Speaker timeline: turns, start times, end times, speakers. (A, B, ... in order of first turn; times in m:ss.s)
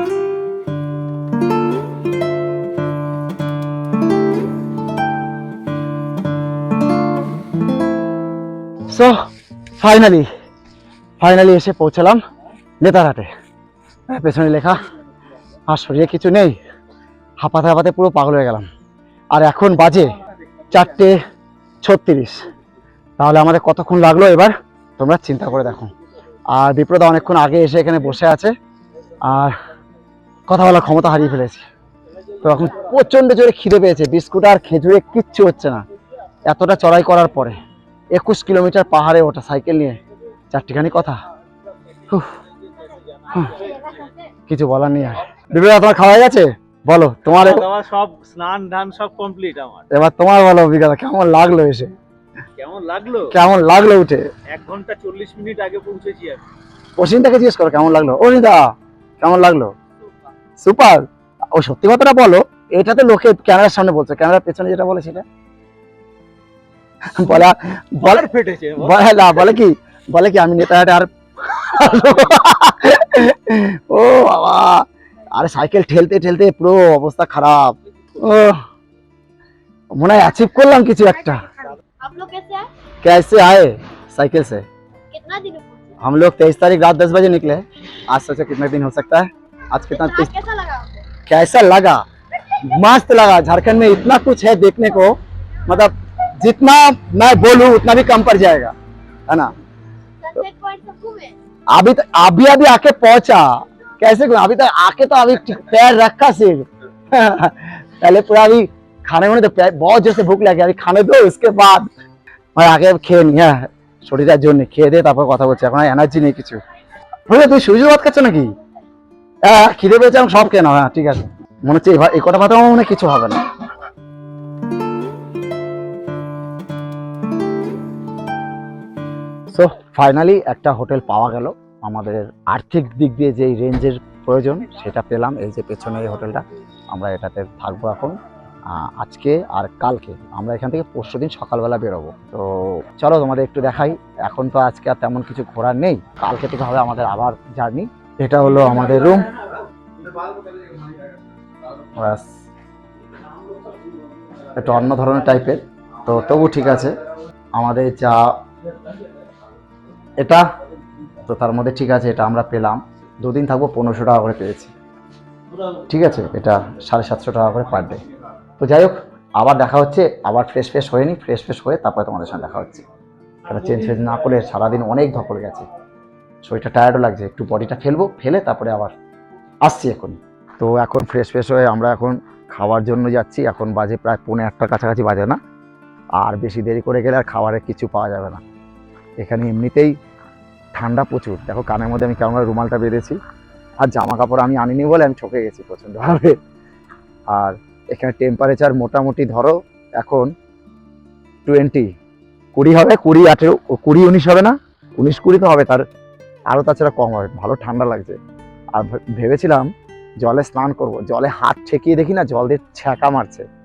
0:08.9-0:09.1 A
0:09.8-0:10.3 A
0:11.2-0:12.2 A
0:12.8-0:13.3 A
0:14.1-0:14.8 A
0:15.7-0:16.6 A
0:17.4-0:18.7 A
0:19.3-0:20.2 A
0:20.7-0:21.2 A
0:21.8-0:22.4 A
0:23.2-0:25.9 A
0:26.5-0:28.5 A
0:29.2-0:29.6 A
0:30.5-0:31.6 A
0:32.4-0:35.8 A
0:36.4-0:37.6 A
0:38.1-0:40.0 A
0:40.5-0:41.2 A
0:42.1-0:42.3 A
0:42.8-0:43.8 B
0:43.3-0:43.7 A
0:44.5-0:47.7 A
0:47.3-0:49.8 B
0:49.9-0:51.9 A
0:52.6-0:53.3 B
0:53.3-0:54.3 A
0:54.5-0:56.4 B
0:57.0-0:58.6 A
0:59.2-0:59.7 A
1:00.6-1:05.2 A
1:07.1-1:18.6 A
1:08.0-1:09.0 B
1:19.9-1:21.4 A
1:22.0-1:22.7 C
1:23.0-1:24.6 A
1:25.1-1:25.9 C
1:26.0-1:30.3 A
1:29.9-1:31.0 C
1:31.2-1:38.7 A
1:40.2-1:41.4 C
1:41.7-1:51.9 A
1:52.6-1:56.6 A
1:57.3-1:58.5 A
1:59.4-2:03.4 A
2:09.5-2:18.2 A
2:18.7-2:29.4 A
2:31.8-2:32.4 A
2:34.5-2:37.0 A
2:37.5-2:38.3 A
2:40.2-2:40.4 A
2:41.2-2:44.7 A
2:45.8-2:48.0 A
2:48.6-2:52.8 A
2:53.4-2:55.6 A
2:56.4-2:58.9 A
2:59.6-3:05.4 A
3:06.2-3:08.4 A
3:09.2-3:09.9 A
3:10.7-3:13.2 A
3:13.8-3:16.4 A
3:17.3-3:20.3 A
3:21.4-3:21.9 A
3:22.5-3:25.8 A
3:26.5-3:28.2 A
3:28.7-3:29.7 A
3:30.2-3:33.5 A